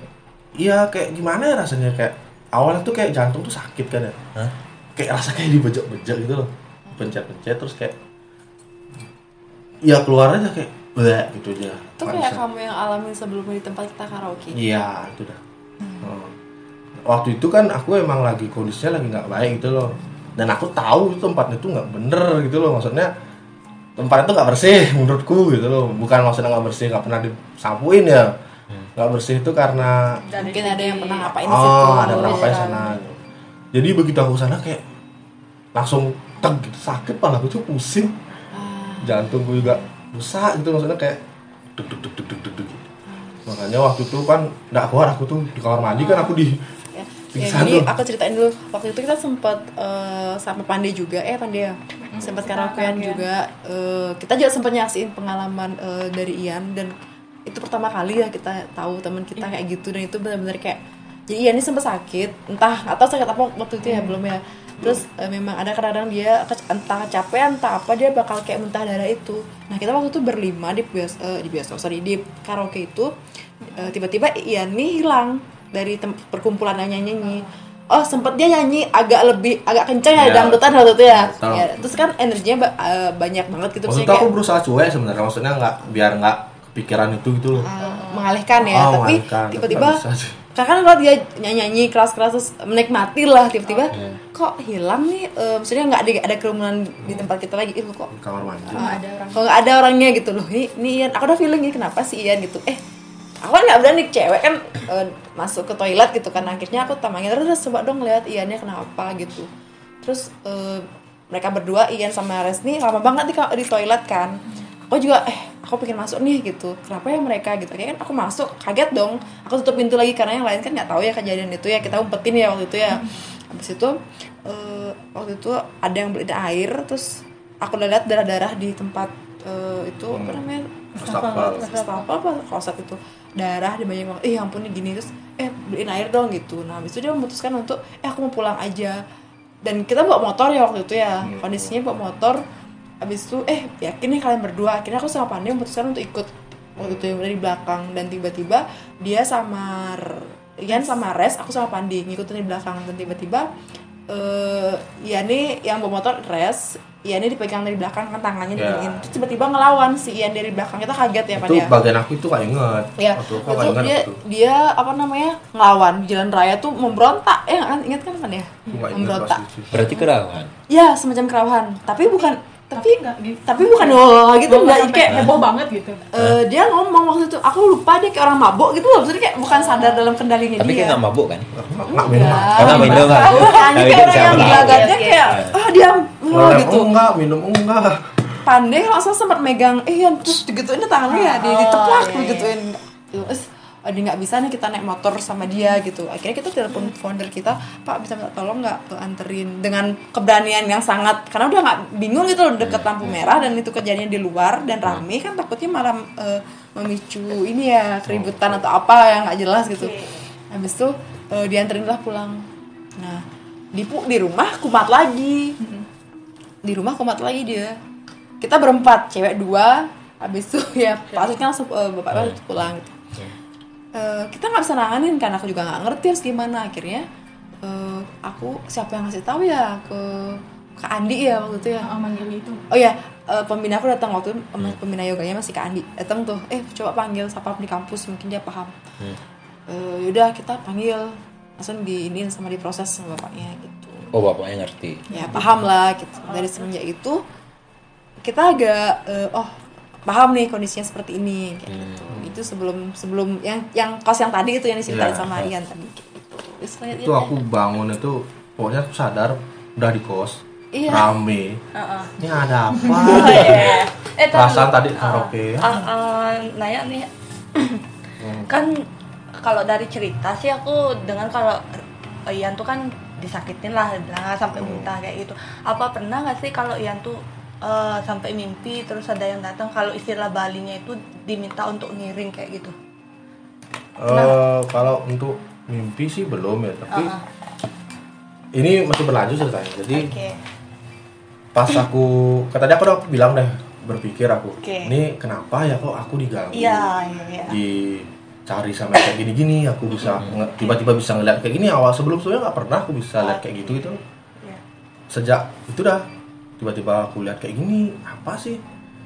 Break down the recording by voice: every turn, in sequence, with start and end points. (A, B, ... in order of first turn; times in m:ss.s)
0:00.6-0:04.3 A
0:05.0-0:08.0 A
0:09.8-0:12.4 A
0:12.0-0:14.6 B
0:14.5-0:15.4 A
0:16.0-0:16.3 A
0:17.0-0:23.1 A
0:24.0-0:28.3 A
0:29.0-0:30.2 A
0:30.3-0:31.4 C
0:30.4-0:33.0 B
0:31.4-0:33.2 A
0:31.9-0:32.8 C
0:33.7-0:34.8 A
0:35.7-0:38.2 A
0:38.5-0:39.8 B
0:39.0-0:41.2 A
0:41.8-0:42.8 A
0:43.4-0:46.6 A
0:46.0-0:46.3 B
0:46.9-0:56.9 B
0:47.3-0:47.9 A
0:52.1-0:52.5 A
0:52.5-0:53.2 C
0:57.4-1:13.1 B
1:13.7-1:24.3 B
1:20.1-1:21.9 A
1:23.8-1:27.7 A
1:27.5-1:30.0 B
1:27.8-1:28.3 C
1:28.6-1:30.4 A
1:30.5-1:38.1 B
1:38.1-1:38.8 A
1:38.7-1:39.4 D
1:38.7-1:42.8 B
1:43.4-1:49.5 B
1:50.0-2:19.0 B
2:10.1-2:10.4 A
2:11.0-2:11.7 A
2:11.0-2:12.1 C
2:19.6-2:22.4 B
2:21.2-2:21.7 A
2:23.0-2:33.5 B
2:26.8-2:27.2 A
2:34.1-2:41.7 B
2:38.6-2:39.1 A
2:41.4-2:44.2 A
2:43.0-2:50.0 B
2:48.7-2:49.8 A
2:49.7-2:50.5 E
2:50.7-2:55.3 B
2:52.2-2:56.0 D
2:55.1-2:55.3 E
2:56.1-3:01.0 B
2:59.5-3:00.0 D
3:00.6-3:01.7 E
3:01.6-3:03.3 A
3:01.8-3:06.9 B
3:02.2-3:05.5 E
3:02.7-3:03.6 D
3:04.2-3:05.4 C
3:06.3-3:08.2 A
3:08.4-3:29.9 B
3:11.1-3:12.5 C
3:22.6-3:23.2 E
3:28.1-3:28.6 A
3:29.7-3:30.2 C
3:30.5-3:32.4 B
3:33.0-3:35.6 B
3:36.6-3:37.8 B
3:38.4-3:42.9 B
3:42.1-3:42.4 E
3:43.9-3:47.0 B
3:47.6-3:52.0 B
3:51.8-3:52.6 D
3:52.7-3:58.8 B
3:59.7-4:04.1 B
4:04.1-4:05.4 E
4:05.1-4:07.2 B
4:08.2-4:09.5 B
4:10.0-4:17.4 B
4:11.7-4:12.3 E
4:14.9-4:15.3 A
4:16.9-4:21.6 A
4:20.7-4:21.1 B
4:21.7-4:22.2 C
4:22.2-4:25.8 A
4:22.9-4:27.8 C
4:28.2-4:28.5 A
4:28.5-4:28.8 C
4:29.4-4:42.7 C
4:34.6-4:34.9 A
4:44.0-4:47.1 A
4:44.1-4:44.4 C
4:46.9-4:47.2 C
4:48.5-4:50.2 A
4:49.9-4:50.4 C
4:51.5-4:56.9 A
4:54.6-4:54.9 C
4:56.5-4:57.6 C
4:57.4-5:04.0 A
5:00.0-5:00.8 C
5:03.2-5:04.6 C
5:05.1-5:06.0 A
5:06.6-5:08.6 A